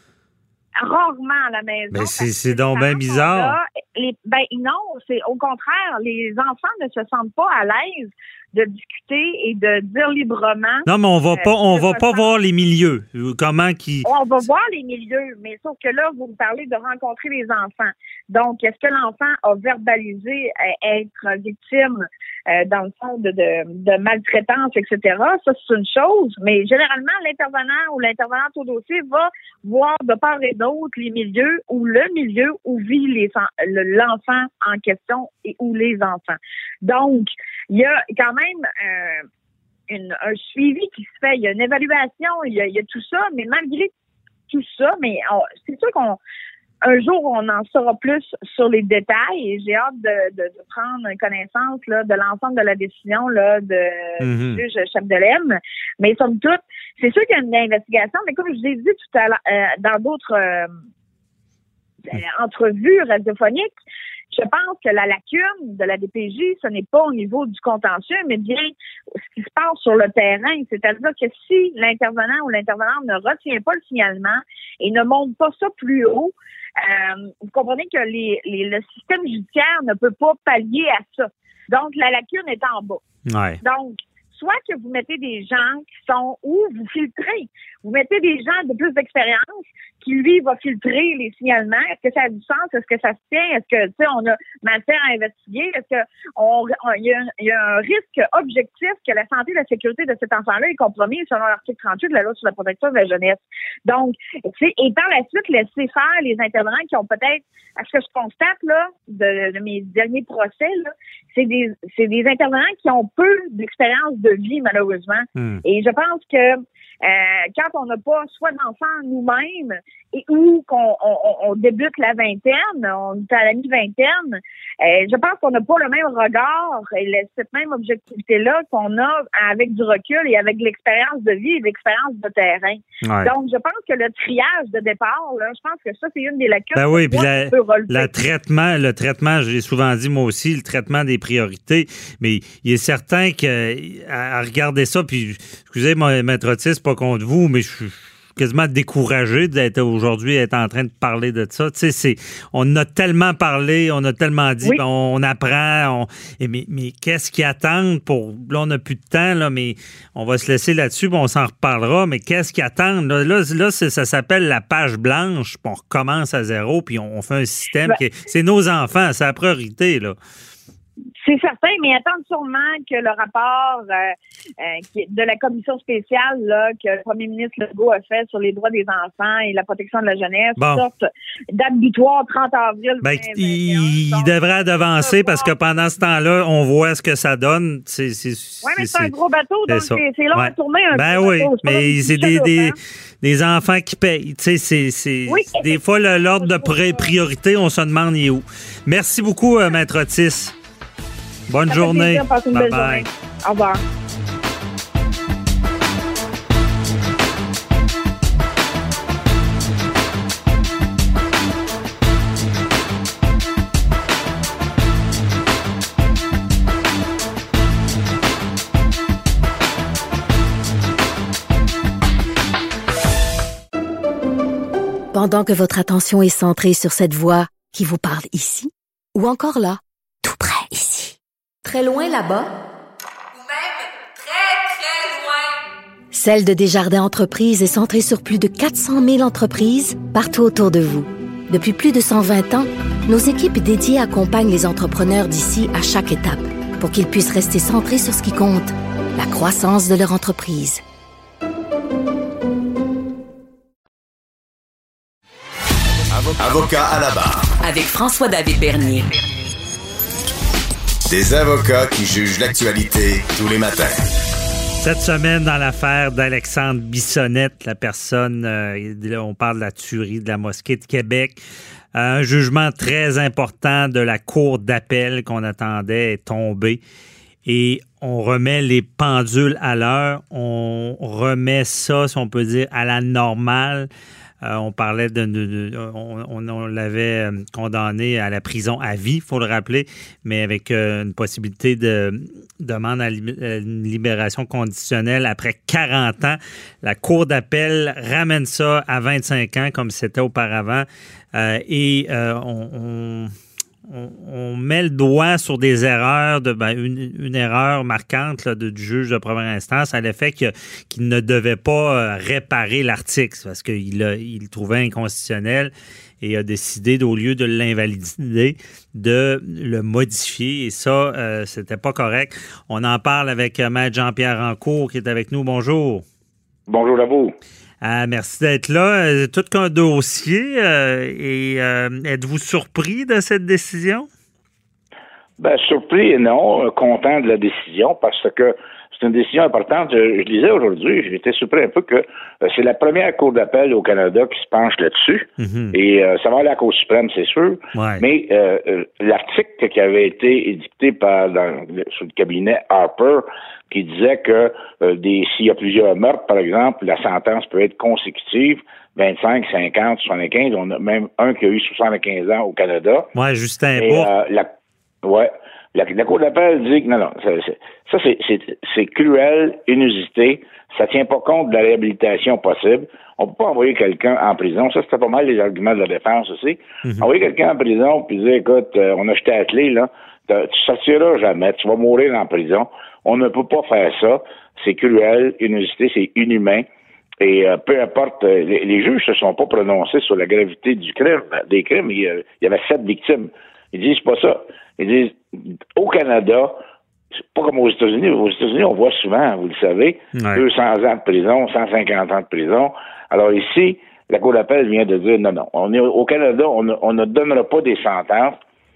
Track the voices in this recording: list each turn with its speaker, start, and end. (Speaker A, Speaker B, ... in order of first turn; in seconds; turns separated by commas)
Speaker A: 0.8-12.2, Speaker B: 1.9-3.6, Speaker B: 10.9-14.1, Speaker A: 14.1-22.0, Speaker A: 22.5-39.2, Speaker A: 39.9-43.9, Speaker A: 44.5-46.2, Speaker A: 46.9-60.7, Speaker B: 54.2-54.6, Speaker A: 62.1-63.7, Speaker A: 64.3-83.0, Speaker B: 83.3-83.6, Speaker A: 83.6-138.1, Speaker B: 115.4-115.6, Speaker B: 133.0-133.3, Speaker B: 136.8-170.2, Speaker A: 171.2-181.0, Speaker B: 180.6-180.9, Speaker A: 181.5-185.5, Speaker B: 183.0-189.1, Speaker A: 188.6-192.8, Speaker B: 189.7-200.5, Speaker A: 195.3-197.1, Speaker B: 201.5-203.1, Speaker A: 201.7-203.8, Speaker C: 225.1-232.5, Speaker D: 231.7-232.2, Speaker D: 233.3-235.6, Speaker C: 236.1-250.8, Speaker E: 256.1-257.5, Speaker D: 257.6-259.5, Speaker E: 261.1-264.1, Speaker B: 264.8-271.4, Speaker B: 271.9-276.8, Speaker B: 277.5-283.9, Speaker B: 284.4-303.3, Speaker B: 303.9-326.1, Speaker F: 326.7-327.4, Speaker B: 327.8-334.1, Speaker F: 335.4-363.1, Speaker B: 345.4-345.8, Speaker B: 347.8-348.1, Speaker B: 363.1-364.1, Speaker F: 363.8-364.5, Speaker F: 365.0-386.7, Speaker F: 387.2-396.6, Speaker F: 397.3-408.4, Speaker B: 400.2-400.4